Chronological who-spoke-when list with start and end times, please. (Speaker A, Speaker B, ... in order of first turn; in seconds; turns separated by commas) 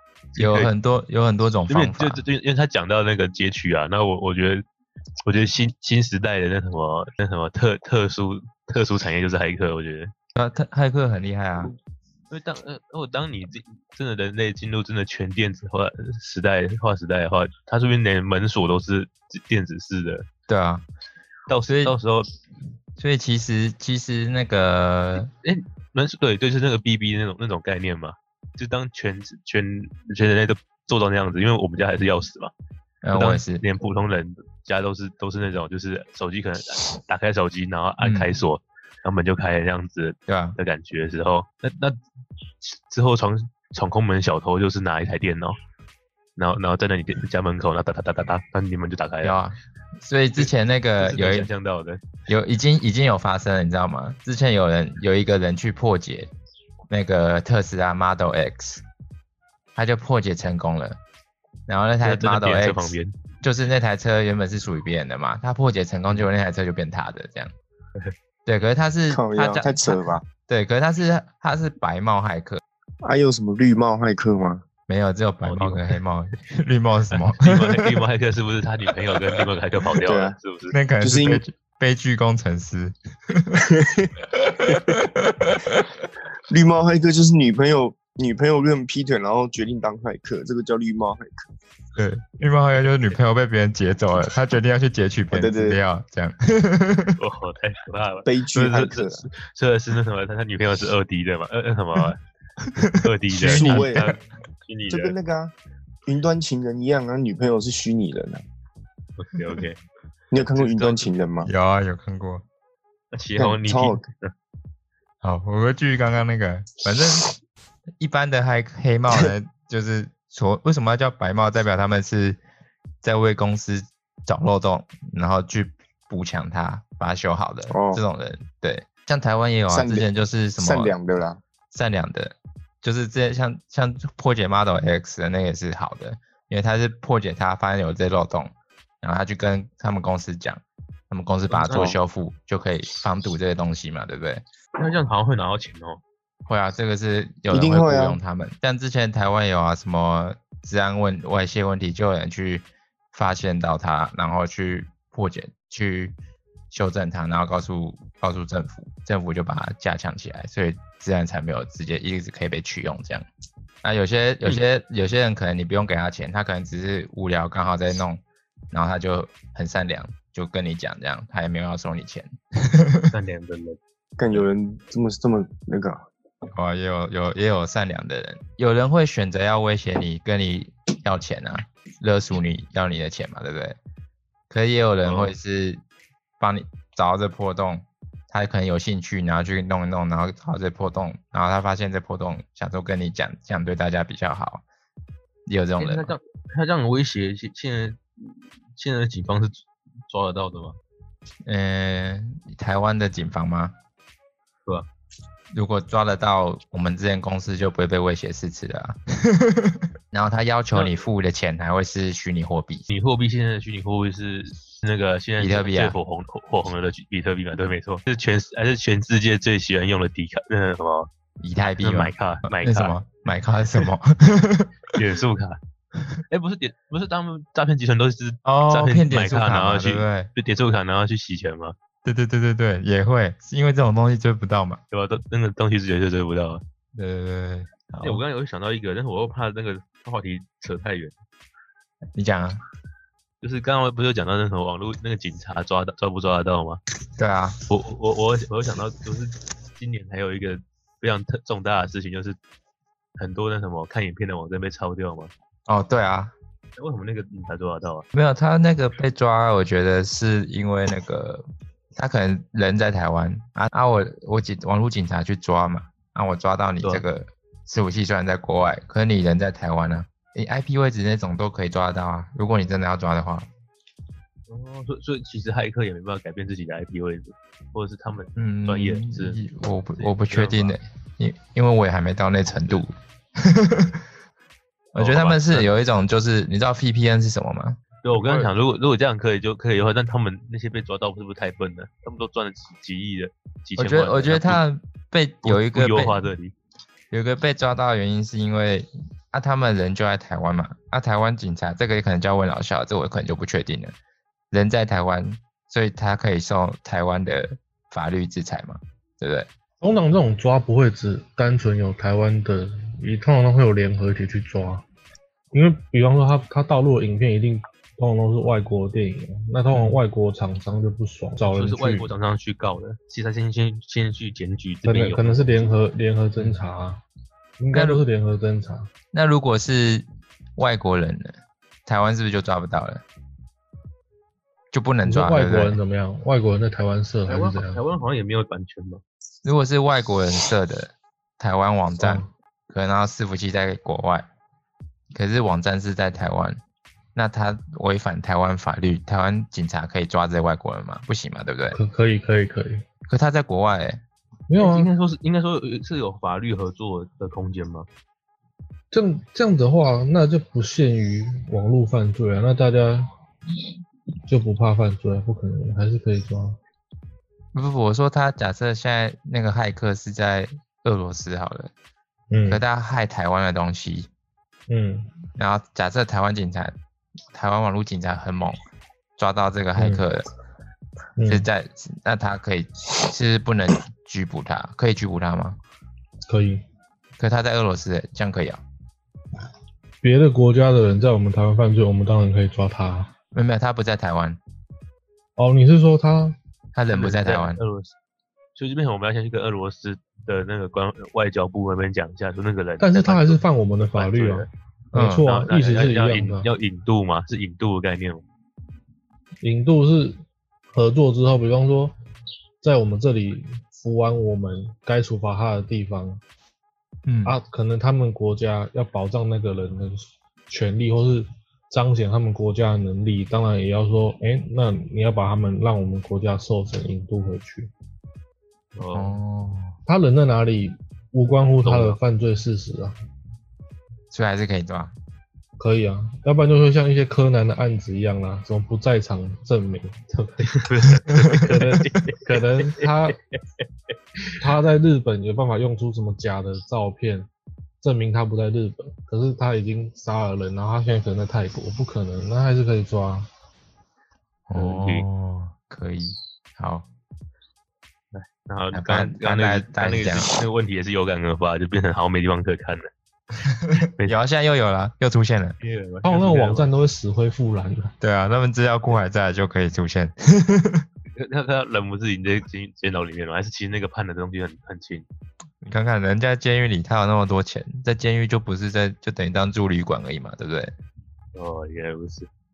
Speaker A: 0.3-0.7, Speaker B: 0.4-2.2, Speaker A: 1.7-4.6, Speaker A: 5.2-10.1, Speaker B: 10.3-11.7, Speaker A: 12.3-20.3, Speaker B: 20.5-20.9, Speaker A: 21.5-22.3, Speaker B: 21.7-21.9, Speaker B: 23.0-25.3, Speaker A: 25.2-32.5, Speaker B: 33.0-33.6, Speaker A: 33.1-42.0, Speaker B: 38.0-38.4, Speaker B: 40.3-40.6, Speaker A: 42.6-45.6, Speaker A: 46.4-49.4, Speaker B: 49.2-51.5, Speaker A: 50.4-52.0, Speaker B: 52.3-56.3, Speaker B: 56.9-58.8, Speaker B: 59.7-61.0, Speaker B: 61.7-67.5, Speaker A: 62.0-63.1, Speaker B: 68.5-72.6, Speaker C: 69.1-70.2, Speaker C: 73.0-74.6, Speaker B: 74.9-77.9, Speaker A: 75.4-75.9, Speaker A: 77.1-80.8, Speaker C: 80.0-80.3, Speaker B: 80.7-83.6, Speaker C: 81.0-81.4, Speaker C: 83.5-85.0, Speaker B: 84.4-85.8, Speaker C: 86.5-91.5, Speaker B: 92.0-97.2, Speaker A: 92.8-93.2, Speaker C: 95.3-95.8, Speaker A: 97.2-102.2, Speaker C: 98.2-99.3, Speaker B: 102.6-104.2, Speaker A: 103.0-105.1, Speaker C: 103.4-104.1, Speaker C: 104.9-105.5, Speaker C: 106.0-108.4, Speaker A: 109.2-109.8, Speaker C: 110.3-111.5, Speaker A: 110.4-111.1, Speaker B: 111.4-112.4, Speaker A: 113.1-114.3, Speaker C: 113.4-114.0, Speaker B: 115.2-117.3, Speaker B: 118.0-122.4, Speaker B: 123.0-130.9, Speaker C: 127.7-128.0, Speaker C: 129.7-130.1, Speaker C: 130.6-131.4, Speaker B: 131.7-144.4, Speaker A: 141.5-141.9, Speaker C: 141.7-141.9, Speaker A: 144.8-146.0, Speaker B: 146.5-156.2, Speaker C: 147.5-148.2, Speaker B: 156.7-163.2, Speaker B: 163.8-173.1, Speaker A: 173.1-173.8, Speaker C: 174.2-176.1, Speaker B: 176.5-183.8, Speaker B: 184.5-185.8, Speaker A: 185.0-185.3, Speaker B: 186.4-194.6, Speaker B: 195.4-196.1, Speaker A: 195.8-200.8, Speaker B: 201.4-203.7, Speaker B: 205.5-212.9, Speaker A: 210.7-211.0, Speaker A: 212.9-221.1, Speaker B: 215.4-216.0, Speaker B: 221.4-224.7, Speaker A: 221.8-222.9, Speaker A: 224.9-225.6, Speaker A: 226.3-231.7, Speaker B: 228.4-230.3, Speaker B: 232.0-234.8, Speaker A: 234.9-236.6, Speaker B: 236.9-238.2, Speaker A: 238.0-241.1, Speaker B: 242.1-242.6, Speaker A: 243.4-246.8, Speaker B: 247.2-247.6, Speaker A: 247.7-252.4, Speaker A: 253.2-255.3, Speaker B: 255.7-256.3, Speaker A: 256.8-258.1, Speaker B: 258.1-273.5, Speaker A: 274.5-279.4, Speaker B: 278.4-284.0, Speaker A: 280.0-280.8, Speaker A: 282.5-282.8, Speaker B: 284.9-288.5, Speaker A: 284.9-285.8, Speaker A: 288.0-294.6, Speaker B: 293.8-296.3, Speaker A: 295.4-296.5, Speaker B: 297.1-303.9, Speaker B: 304.5-309.5, Speaker D: 309.8-314.8, Speaker D: 315.5-322.1, Speaker A: 319.7-320.0, Speaker A: 321.5-325.8, Speaker D: 324.8-327.0, Speaker D: 327.6-328.9, Speaker B: 327.7-328.0, Speaker B: 329.1-330.1, Speaker B: 330.6-333.0, Speaker B: 334.7-335.8, Speaker D: 335.0-337.8, Speaker A: 337.3-339.0, Speaker B: 339.4-344.3, Speaker D: 342.0-342.3, Speaker B: 345.1-346.6, Speaker B: 347.1-351.8, Speaker D: 351.7-352.8, Speaker B: 353.1-354.0, Speaker D: 354.5-354.9, Speaker A: 354.6-357.9, Speaker D: 358.9-363.1, Speaker D: 364.3-366.6, Speaker B: 367.5-371.7, Speaker D: 372.3-372.6, Speaker B: 372.5-374.1, Speaker D: 374.7-375.1, Speaker B: 375.4-376.7, Speaker B: 377.3-378.6, Speaker B: 379.2-380.2, Speaker D: 379.8-380.1, Speaker D: 381.2-381.4, Speaker B: 381.3-385.6, Speaker D: 386.3-386.6, Speaker B: 387.2-388.6, Speaker D: 390.0-393.1, Speaker B: 393.3-394.4, Speaker D: 395.4-396.4, Speaker B: 396.7-397.6, Speaker A: 396.9-397.9, Speaker A: 398.6-403.4, Speaker D: 402.8-406.5, Speaker A: 403.9-404.5, Speaker B: 404.9-405.3, Speaker A: 405.2-408.2, Speaker D: 409.4-410.2, Speaker D: 410.7-411.9, Speaker D: 412.6-416.2, Speaker B: 417.1-417.4, Speaker D: 417.2-427.7, Speaker A: 428.7-429.2, Speaker B: 428.9-429.8, Speaker D: 429.9-432.9, Speaker A: 431.6-432.0, Speaker B: 434.1-434.9, Speaker D: 435.6-440.5, Speaker A: 440.4-443.6, Speaker D: 441.5-443.2, Speaker D: 444.4-447.3, Speaker D: 447.8-453.3, Speaker B: 454.5-456.9, Speaker A: 454.5-455.1, Speaker A: 458.1-462.9, Speaker B: 458.7-460.4, Speaker B: 463.6-465.6, Speaker A: 463.8-464.1, Speaker A: 465.6-466.7, Speaker D: 466.0-467.9, Speaker B: 468.0-470.9, Speaker A: 471.1-475.1, Speaker B: 475.6-480.7, Speaker A: 481.3-482.3